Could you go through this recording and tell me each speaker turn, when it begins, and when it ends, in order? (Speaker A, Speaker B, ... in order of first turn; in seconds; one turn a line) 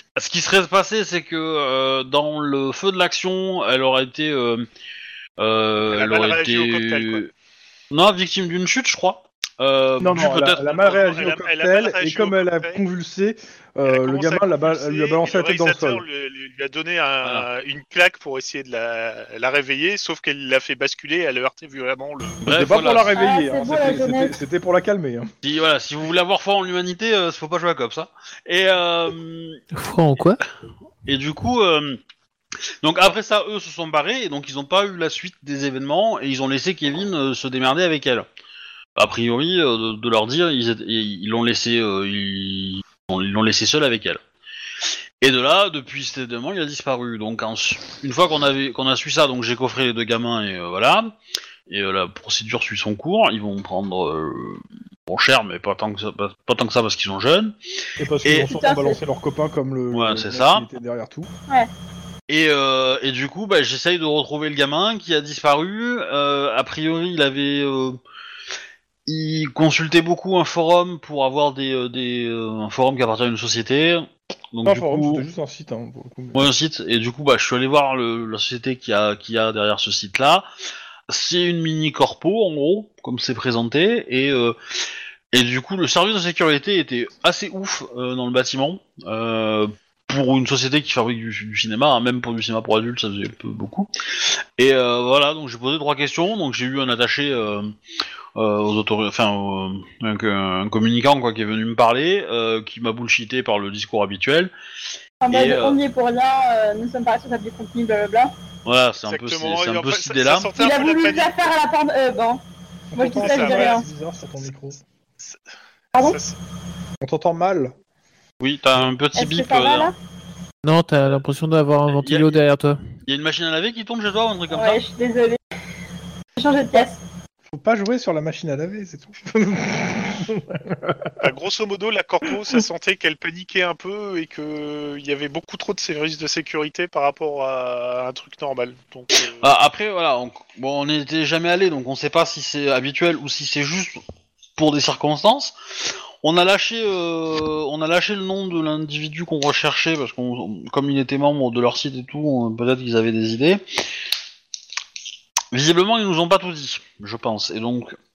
Speaker A: 0.1-4.7
Speaker A: 5.4-7.3
Speaker B: 5.9-7.2
Speaker A: 7.9-10.7
Speaker C: 10.0-16.0
Speaker B: 10.7-12.8
Speaker B: 13.8-22.4
Speaker A: 22.4-23.1
Speaker C: 22.5-25.3
Speaker D: 23.1-24.4
Speaker A: 25.4-29.6
Speaker E: 29.7-30.4
Speaker A: 31.1-32.0
Speaker A: 32.8-38.2
Speaker A: 39.0-44.2
Speaker A: 45.2-51.1
Speaker A: 51.7-57.5
Speaker C: 58.0-61.3
Speaker A: 58.2-58.5
Speaker D: 58.4-59.0
Speaker A: 59.9-60.6
Speaker A: 62.3-68.0
Speaker A: 69.1-75.2
Speaker C: 74.6-76.5
Speaker A: 76.3-80.5
Speaker A: 81.1-84.5
Speaker A: 85.3-93.9
Speaker A: 94.6-97.7
Speaker A: 98.3-104.5
Speaker D: 105.2-108.3
Speaker A: 105.3-105.8
Speaker A: 108.7-110.5
Speaker B: 109.0-111.5
Speaker D: 110.6-112.4
Speaker C: 112.9-114.8
Speaker D: 112.9-113.8
Speaker B: 113.1-113.8
Speaker D: 115.9-116.2
Speaker B: 115.9-116.4
Speaker C: 117.0-117.7
Speaker A: 118.4-119.9
Speaker D: 119.1-119.9
Speaker E: 120.6-122.8
Speaker A: 121.9-122.3
Speaker A: 123.1-124.8
Speaker D: 124.5-125.4
Speaker D: 126.4-127.0
Speaker C: 127.5-131.1
Speaker B: 131.2-139.5
Speaker A: 139.4-144.0
Speaker A: 144.6-153.6
Speaker A: 155.5-157.9